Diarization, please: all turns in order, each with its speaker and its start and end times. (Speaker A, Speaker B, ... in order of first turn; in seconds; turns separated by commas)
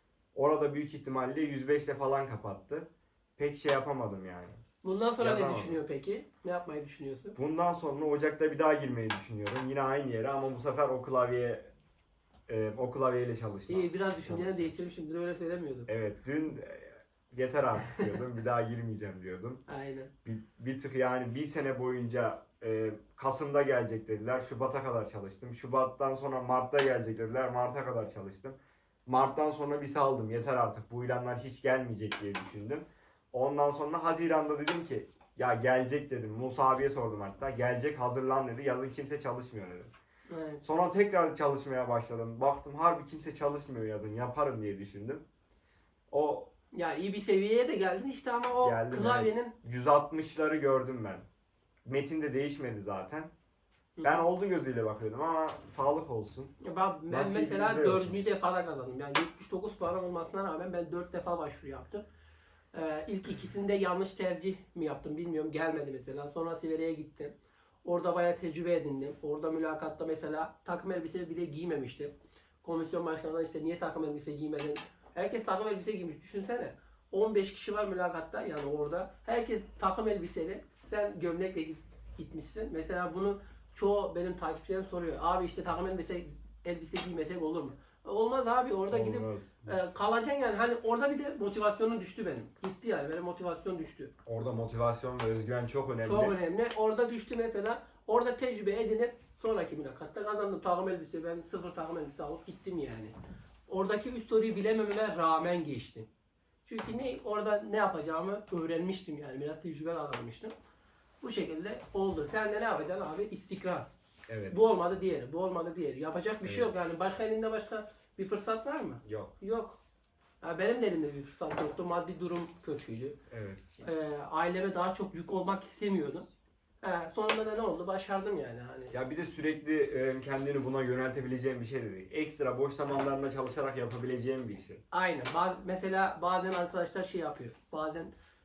Speaker A: 0.3-4.6, Speaker B: 4.8-7.3, Speaker A: 5.2-5.8, Speaker A: 7.3-11.7, Speaker A: 12.5-14.7, Speaker B: 13.7-15.9, Speaker A: 15.9-19.6, Speaker B: 17.8-18.1, Speaker B: 19.7-20.1, Speaker A: 20.2-39.9, Speaker B: 40.3-40.6, Speaker A: 40.6-45.2, Speaker A: 46.1-46.5, Speaker B: 46.7-49.5, Speaker A: 48.6-51.2, Speaker A: 51.9-53.3, Speaker B: 54.0-54.2, Speaker A: 54.0-56.5, Speaker B: 56.6-62.0, Speaker A: 57.1-58.2, Speaker B: 62.7-94.1, Speaker A: 88.9-89.8, Speaker A: 94.2-96.4, Speaker B: 96.0-103.1, Speaker B: 103.7-106.1, Speaker B: 106.7-110.5, Speaker B: 111.2-113.9, Speaker A: 114.3-114.7, Speaker B: 114.5-119.8, Speaker A: 116.4-116.7, Speaker A: 119.0-119.3, Speaker B: 120.4-123.2, Speaker A: 123.3-123.8, Speaker B: 123.8-126.2, Speaker B: 126.8-128.9, Speaker A: 128.9-134.8, Speaker B: 134.9-138.1